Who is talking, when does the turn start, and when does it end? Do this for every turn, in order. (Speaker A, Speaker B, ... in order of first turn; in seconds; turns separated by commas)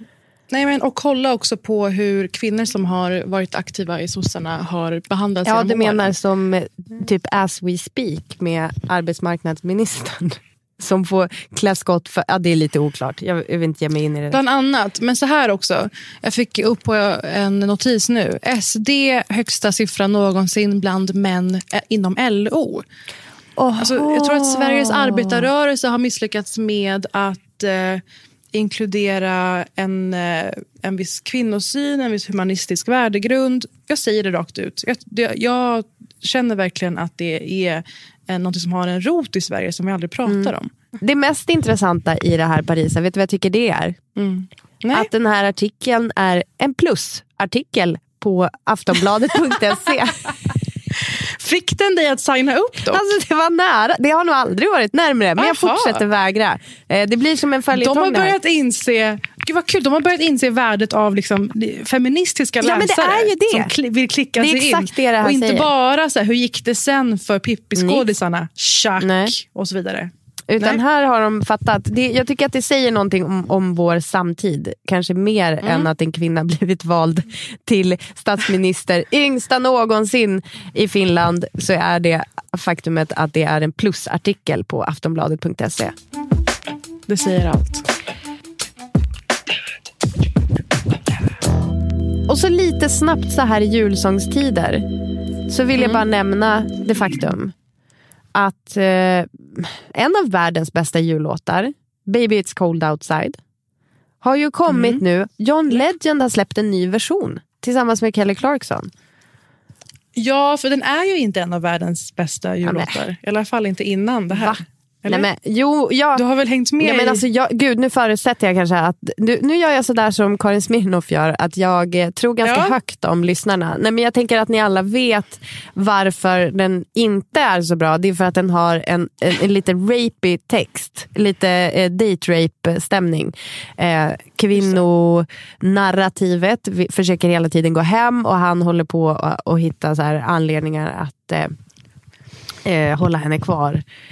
Speaker A: 0.5-6.2, Speaker B: 5.5-14.4, Speaker A: 14.3-22.9, Speaker B: 23.6-25.5, Speaker A: 23.8-40.8, Speaker B: 40.3-44.0, Speaker A: 44.2-45.1, Speaker B: 44.9-50.3, Speaker A: 51.2-53.1, Speaker B: 52.9-58.4, Speaker A: 55.4-56.0, Speaker A: 57.7-70.8, Speaker B: 62.6-63.7, Speaker B: 64.4-65.7, Speaker B: 67.8-68.1, Speaker B: 69.0-69.3, Speaker B: 70.5-86.0, Speaker A: 75.6-75.9, Speaker A: 87.1-87.8, Speaker B: 92.3-94.9, Speaker B: 95.5-97.5, Speaker A: 95.8-96.0, Speaker B: 98.3-103.4, Speaker B: 104.2-108.9, Speaker A: 104.7-105.0, Speaker A: 110.2-115.3, Speaker B: 112.6-113.0, Speaker B: 114.3-116.2, Speaker A: 116.2-117.2, Speaker B: 116.8-141.5, Speaker A: 122.4-122.8, Speaker A: 134.5-134.8, Speaker B: 142.7-143.8